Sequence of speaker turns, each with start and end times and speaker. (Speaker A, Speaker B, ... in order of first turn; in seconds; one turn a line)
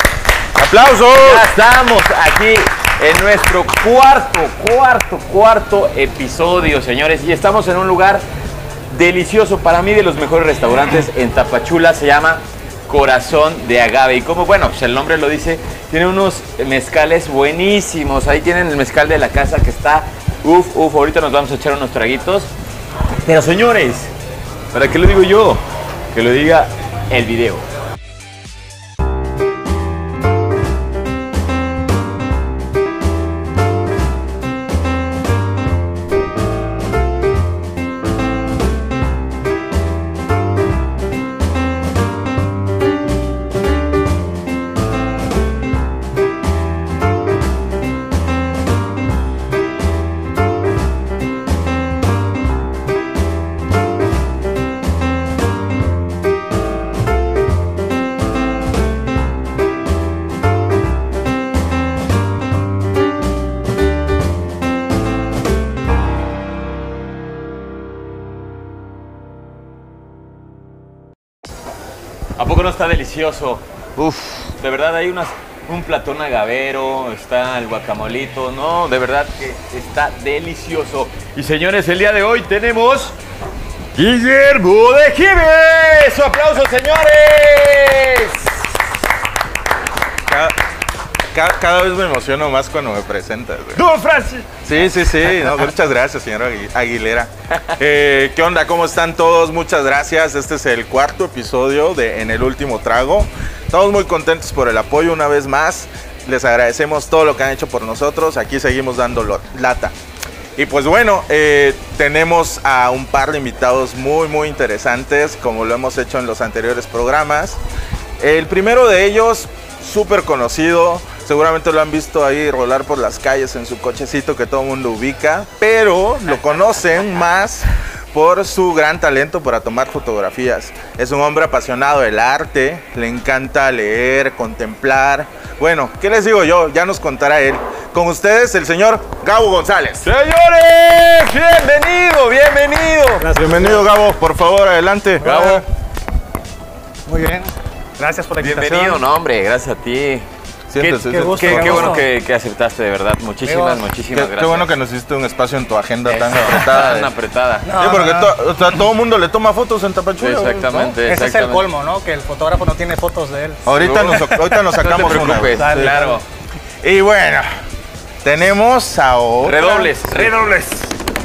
Speaker A: 0.6-1.5
Speaker B: 1.2-8.2
Speaker B: 8.9-22.5
Speaker B: 23.2-24.1
Speaker B: 24.7-27.6
Speaker B: 72.4-83.2
Speaker B: 83.9-88.6
Speaker A: 90.3-90.5
Speaker A: 91.3-93.8
Speaker B: 93.7-94.6
Speaker A: 94.6-109.9
Speaker A: 110.5-117.6
Speaker A: 118.2-140.0
Speaker B: 140.0-143.3
Speaker C: 143.2-143.8
Speaker A: 143.3-145.4
Speaker C: 145.2-145.6
Speaker B: 145.2-145.6
Speaker C: 147.1-149.0
Speaker B: 148.4-150.3
Speaker A: 150.7-152.0
Speaker C: 150.8-152.1
Speaker B: 151.3-154.7
Speaker C: 153.4-153.8
Speaker A: 154.1-157.1
Speaker B: 156.1-157.7
Speaker C: 157.6-158.3
Speaker A: 157.7-160.9
Speaker B: 160.2-161.7
Speaker C: 160.7-166.2
Speaker A: 163.6-166.0
Speaker B: 163.7-166.2
Speaker A: 166.8-167.5
Speaker A: 168.2-170.3
Speaker B: 169.4-170.4
Speaker C: 170.3-170.9